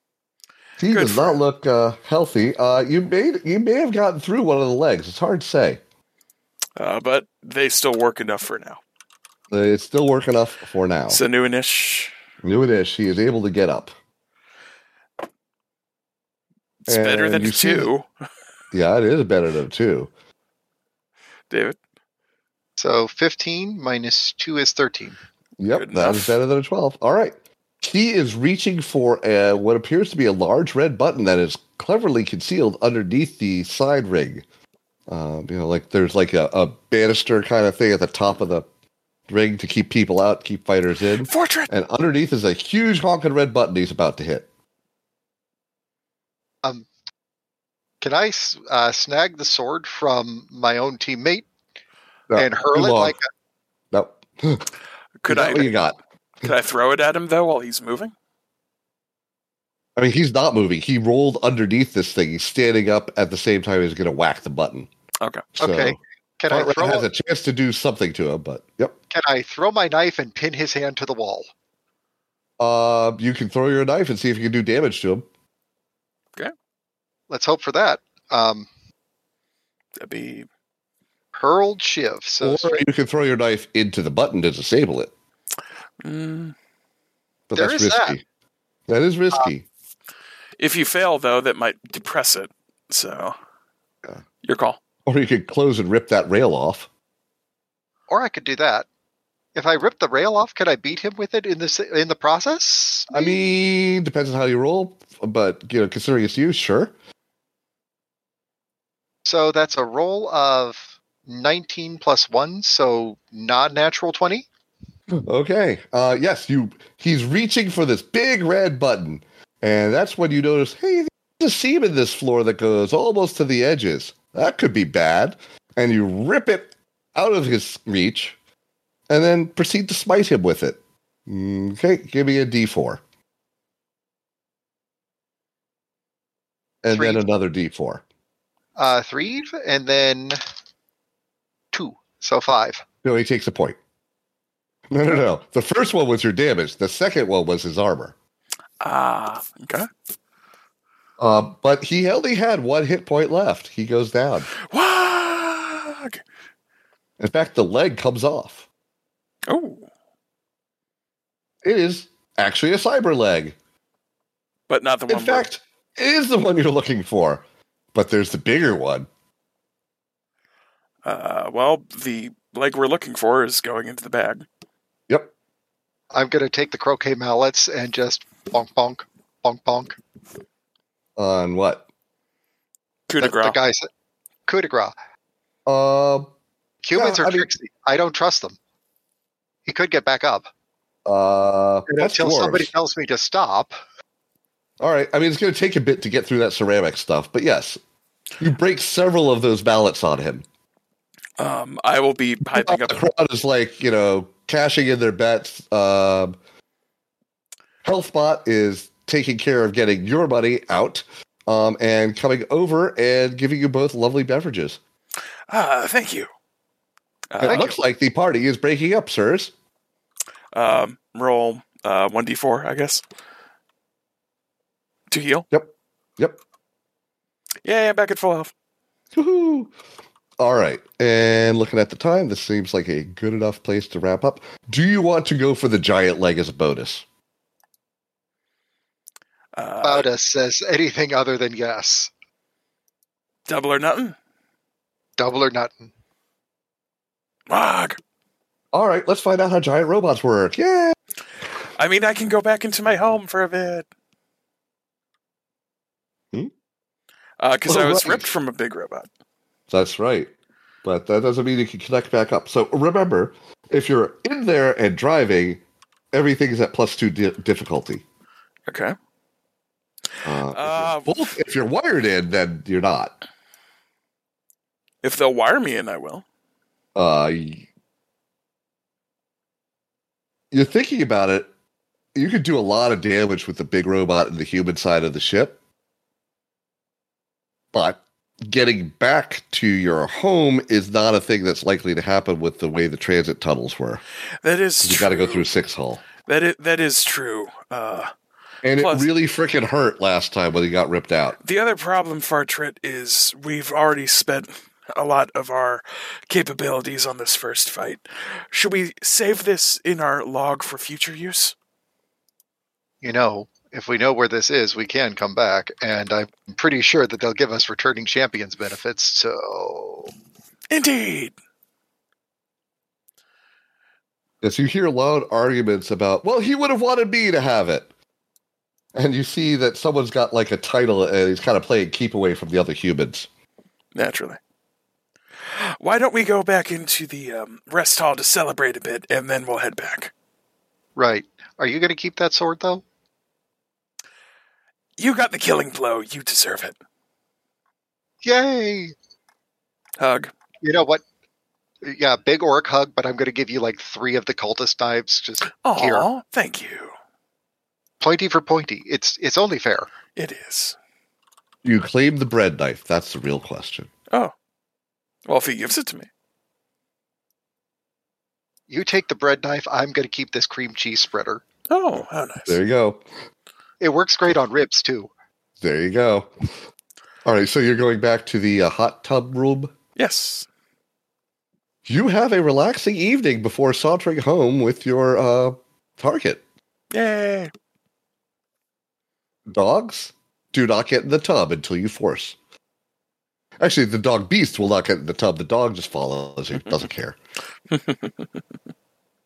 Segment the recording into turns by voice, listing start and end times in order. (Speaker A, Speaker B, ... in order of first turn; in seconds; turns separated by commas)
Speaker A: 0.8-5.8, Speaker B: 0.9-1.4, Speaker B: 6.8-8.8, Speaker A: 9.5-11.2, Speaker B: 11.1-12.1, Speaker A: 12.4-13.9, Speaker B: 16.9-18.1, Speaker A: 16.9-17.9, Speaker A: 18.7-20.1, Speaker B: 21.5-21.8, Speaker C: 22.8-25.2, Speaker A: 25.6-34.4, Speaker B: 25.7-26.4, Speaker A: 35.1-38.6, Speaker A: 39.3-44.5, Speaker B: 41.2-41.7, Speaker C: 48.0-51.5, Speaker A: 52.3-53.1, Speaker C: 52.3-53.2, Speaker A: 53.9-54.7, Speaker B: 55.2-55.8, Speaker A: 55.3-56.0, Speaker B: 56.4-58.1, Speaker A: 60.0-64.9, Speaker B: 65.2-65.5, Speaker A: 65.5-66.0, Speaker C: 65.6-67.0, Speaker A: 66.5-69.0, Speaker C: 69.1-71.5, Speaker A: 72.6-75.3, Speaker C: 77.3-78.7, Speaker B: 80.0-80.5, Speaker C: 81.3-82.8, Speaker A: 82.4-85.1, Speaker B: 86.0-86.5, Speaker A: 87.5-88.2, Speaker C: 87.5-88.2, Speaker A: 88.9-89.6, Speaker B: 90.6-93.3, Speaker B: 94.4-94.8, Speaker A: 95.0-96.9, Speaker C: 98.1-98.8, Speaker C: 99.5-103.5, Speaker A: 103.1-106.9, Speaker C: 109.2-114.5, Speaker A: 115.2-128.4, Speaker A: 129.1-133.0, Speaker A: 136.8-138.0, Speaker C: 136.9-137.2, Speaker C: 138.8-140.4, Speaker C: 141.7-142.8, Speaker A: 143.0-143.8, Speaker A: 144.9-148.1, Speaker B: 148.8-149.9, Speaker A: 151.2-154.5, Speaker B: 154.6-156.2, Speaker A: 157.2-158.6, Speaker B: 159.5-159.9, Speaker A: 161.6-163.6, Speaker B: 164.7-165.4, Speaker A: 165.1-169.1, Speaker B: 171.0-174.4, Speaker C: 176.1-180.0, Speaker A: 181.2-181.8, Speaker B: 183.1-183.6, Speaker C: 183.2-183.9, Speaker C: 184.5-184.9, Speaker A: 185.7-186.3, Speaker C: 186.8-188.6, Speaker A: 186.9-187.5, Speaker C: 189.7-190.5, Speaker A: 191.0-192.7, Speaker C: 191.9-193.7, Speaker A: 194.8-197.8, Speaker A: 198.4-200.4, Speaker B: 201.4-203.0, Speaker A: 202.5-206.3, Speaker A: 207.8-214.8, Speaker B: 215.5-216.3, Speaker B: 217.3-217.7, Speaker C: 217.4-217.7, Speaker A: 217.4-219.5, Speaker B: 220.5-223.0, Speaker B: 225.1-225.4, Speaker A: 225.5-226.4, Speaker B: 227.6-228.5, Speaker A: 229.1-229.7, Speaker A: 230.4-237.0, Speaker B: 239.5-240.1, Speaker C: 239.8-242.1, Speaker B: 243.5-244.1, Speaker C: 245.2-245.9, Speaker B: 247.5-248.0, Speaker A: 248.7-250.9, Speaker B: 251.8-253.8, Speaker B: 257.4-259.1, Speaker A: 257.7-258.3, Speaker C: 257.7-258.2, Speaker A: 259.7-260.3, Speaker A: 260.8-268.0, Speaker B: 268.7-268.9, Speaker A: 270.2-273.1, Speaker B: 270.4-271.4, Speaker B: 275.0-276.2, Speaker A: 276.9-277.6, Speaker A: 280.5-281.5, Speaker A: 282.1-285.6, Speaker A: 287.7-294.0, Speaker B: 294.4-295.5, Speaker A: 294.8-296.0, Speaker B: 296.2-298.1, Speaker A: 298.6-301.4, Speaker B: 298.8-299.1, Speaker B: 301.4-311.5, Speaker C: 313.0-320.1, Speaker B: 320.7-321.3, Speaker A: 324.4-327.9, Speaker A: 328.9-333.3, Speaker B: 333.9-334.4, Speaker B: 335.5-340.1, Speaker C: 340.9-342.8, Speaker B: 345.0-346.8, Speaker C: 348.2-348.9, Speaker B: 350.0-350.3, Speaker C: 350.6-351.0, Speaker C: 351.8-356.1, Speaker B: 355.6-356.9, Speaker C: 358.0-359.9, Speaker B: 360.1-360.8, Speaker A: 361.6-363.9, Speaker B: 365.2-366.1, Speaker C: 368.7-371.4, Speaker B: 371.7-372.6, Speaker A: 372.4-373.0, Speaker C: 373.8-375.1, Speaker A: 375.6-376.3, Speaker A: 377.2-379.7, Speaker B: 379.9-380.5, Speaker A: 381.9-386.4, Speaker B: 386.9-387.5, Speaker A: 389.5-392.4, Speaker A: 393.6-397.2, Speaker B: 397.7-398.1